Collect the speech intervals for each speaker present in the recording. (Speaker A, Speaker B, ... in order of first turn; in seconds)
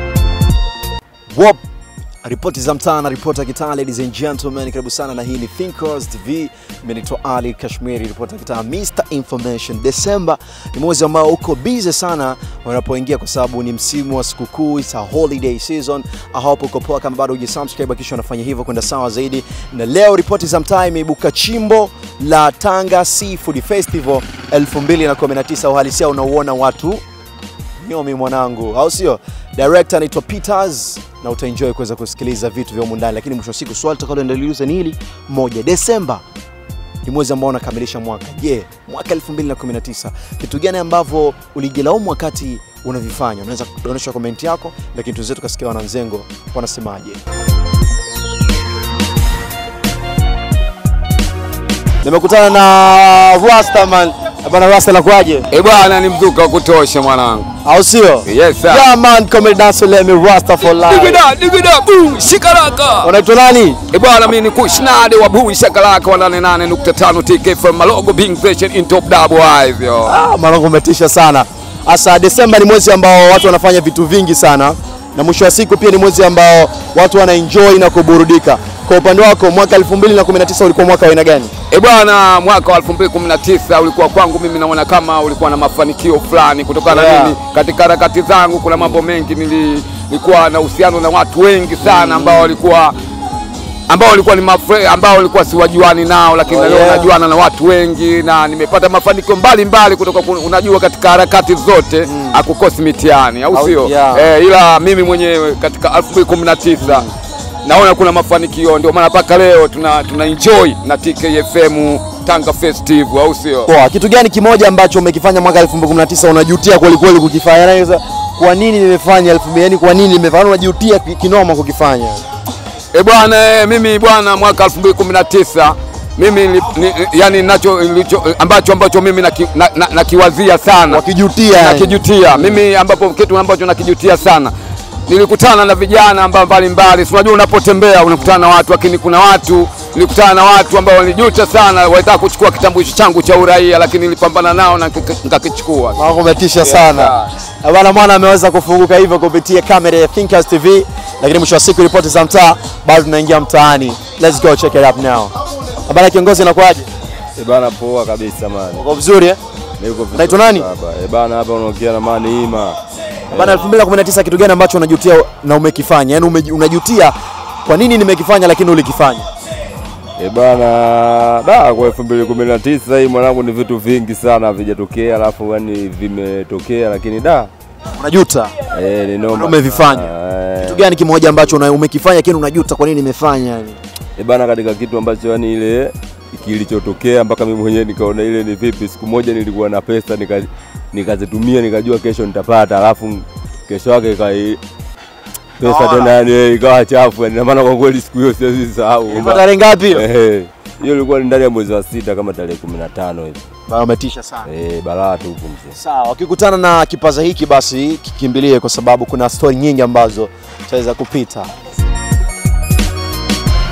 Speaker A: 1.3-1.6, 2.2-27.0, 27.8-36.2, 37.0-47.2, 52.0-55.5, 57.6-61.2, 63.0-63.8, 70.0-81.5, 86.9-87.4, 91.8-92.5, 96.5-97.1, 102.0-102.4, 103.5-104.3, 106.8-107.1, 113.7-122.2, 130.9-132.0, 145.9-155.3, 155.9-156.9, 158.8-159.4, 160.1-160.7, 163.3-169.3, 178.0-178.5, 179.3-183.8, 195.6-196.1, 199.1-200.1, 203.7-204.5, 205.8-211.5
Speaker B: 55.5-57.5, 58.2-58.9, 60.7-63.1, 63.9-70.2, 81.7-93.0, 93.9-107.1, 107.7-113.7, 122.9-134.5, 135.1-146.0, 146.6-147.3
Speaker C: 157.4-158.8, 159.8-162.8, 163.3-163.7, 170.2-177.5, 178.7-181.4, 184.2-194.6, 195.6-203.4, 204.5-205.8